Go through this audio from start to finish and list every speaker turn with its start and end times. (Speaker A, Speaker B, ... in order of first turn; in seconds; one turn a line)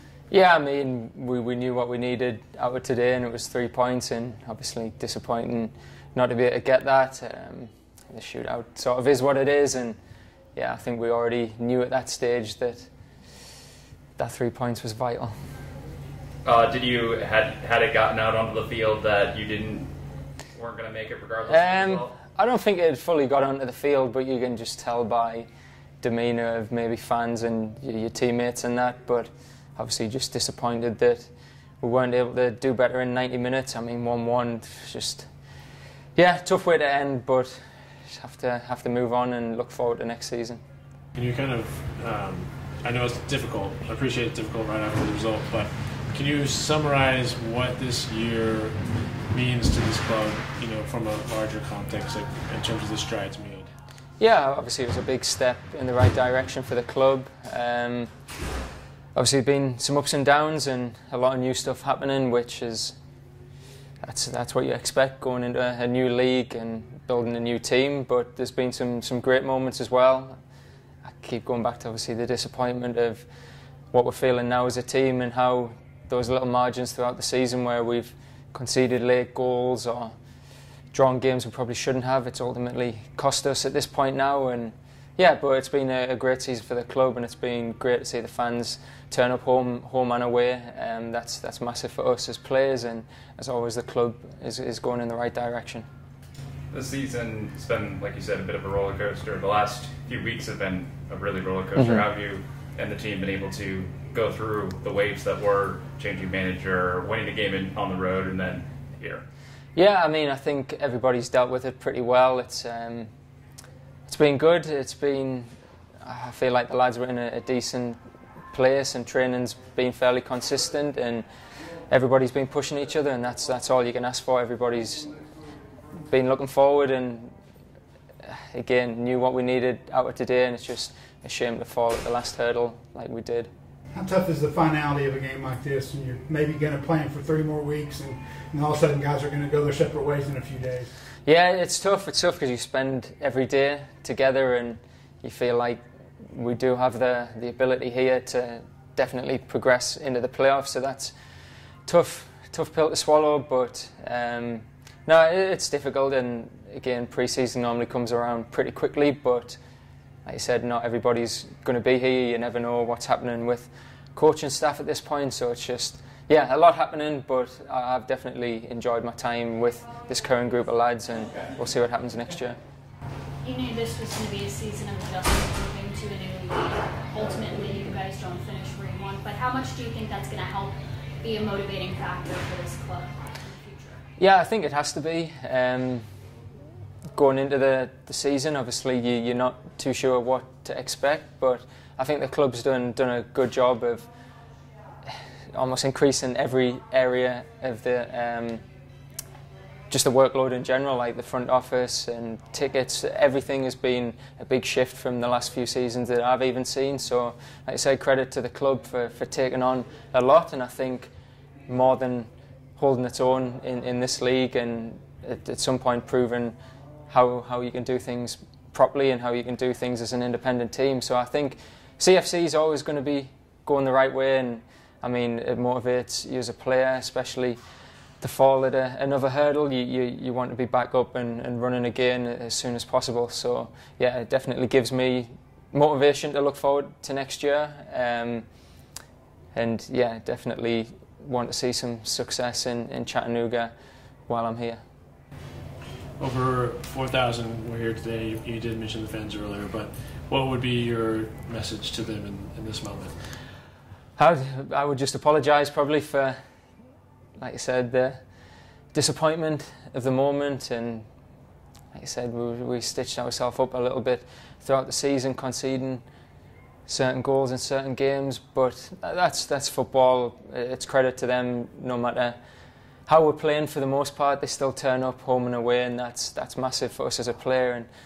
Speaker A: 0.3-10.0
Speaker A: 10.6-12.9
Speaker A: 14.2-15.3
Speaker B: 16.4-19.9
Speaker B: 20.5-22.1
Speaker A: 21.5-25.5
Speaker A: 26.0-35.3
Speaker A: 36.2-40.6
Speaker C: 41.1-53.7
Speaker A: 54.2-58.1
Speaker A: 59.1-63.0
Speaker A: 64.0-70.4
Speaker A: 71.0-73.2
Speaker A: 73.9-80.1
Speaker A: 80.9-95.9
Speaker B: 96.7-109.2
Speaker A: 101.8-102.0
Speaker A: 109.8-113.1
Speaker A: 114.1-115.5
Speaker A: 116.0-118.0
Speaker A: 118.5-121.2
Speaker A: 121.9-125.1
Speaker A: 126.1-127.3
Speaker A: 128.2-133.5
Speaker D: 133.9-140.9
Speaker A: 141.3-151.1
Speaker A: 151.9-159.6
Speaker A: 160.2-172.6
Speaker E: 173.4-184.0
Speaker A: 184.2-186.1
Speaker A: 187.1-194.1
Speaker A: 195.1-198.6
Speaker A: 199.9-211.1
Speaker A: 211.7-216.6
Speaker A: 217.1-227.6
Speaker A: 228.2-238.4
Speaker A: 239.5-243.7
Speaker A: 244.3-244.8
Speaker C: 246.2-253.3
Speaker A: 254.2-256.4
Speaker A: 257.4-258.3
Speaker A: 258.9-261.1
Speaker A: 261.9-266.0
Speaker A: 266.9-272.4
Speaker A: 273.1-277.9